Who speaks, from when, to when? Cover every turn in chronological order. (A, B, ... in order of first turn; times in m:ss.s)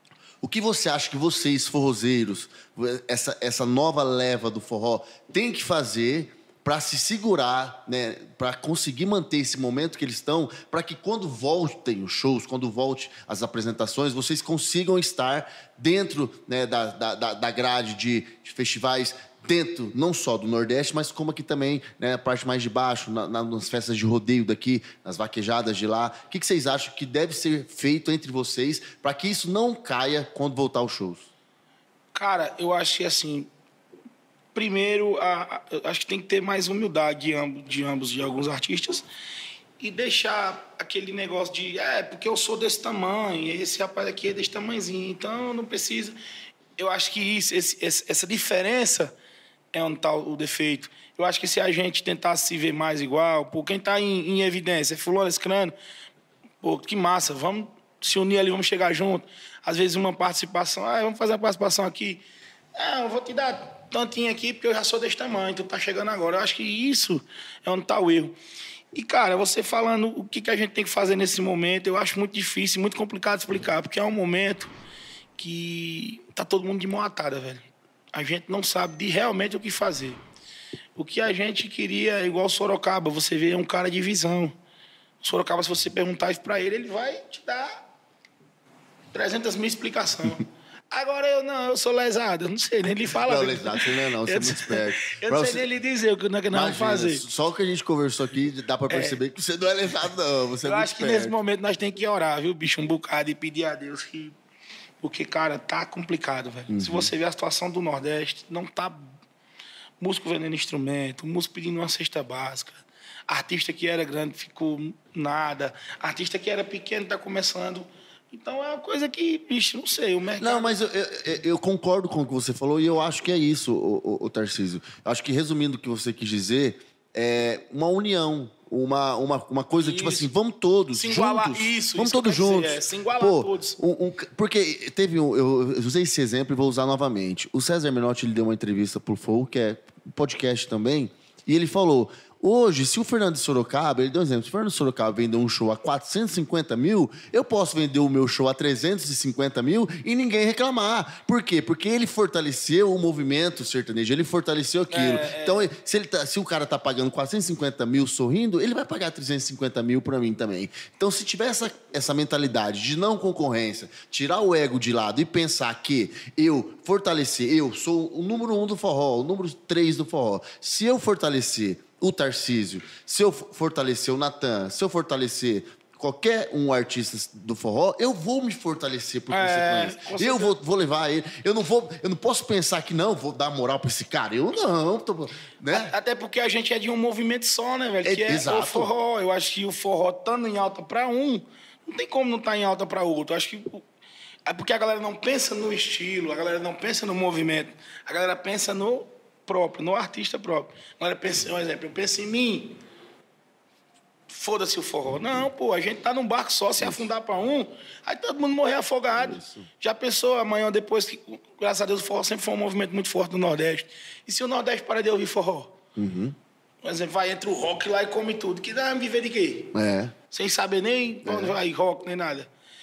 0:00.4-0:31.3 A
0:32.1-0:33.5 B
0:34.6-0:39.1 B
0:39.8-0:46.2 B
0:46.8-0:49.2 B
0:49.7-0:55.8 B
0:56.6-1:02.2 B
1:02.8-1:08.4 B
1:08.9-1:14.7 B
1:15.4-1:20.2 B
1:21.0-1:24.6 B
1:25.2-1:27.8 B
1:29.1-1:37.2 B
1:33.2-1:35.7 A
1:36.5-1:41.4 A
1:38.9-1:39.2 B
1:40.6-1:44.4 B
1:45.0-1:49.1 B
1:46.7-1:47.1 A
1:50.0-2:00.7 B
2:00.4-3:05.9 A
2:09.8-2:10.3 B
2:10.9-2:13.8 B
2:34.9-2:35.7 B
2:59.3-3:00.6 B
3:05.7-3:13.8 B
3:08.0-3:08.9 A
3:14.5-3:22.8 B
3:24.3-3:35.7 B
3:26.8-3:27.1 A
3:29.1-3:29.7 A
3:36.0-3:36.4 A
3:36.8-3:39.7 B
3:39.7-3:40.2 A
3:40.3-3:42.5 B
3:41.2-3:41.6 A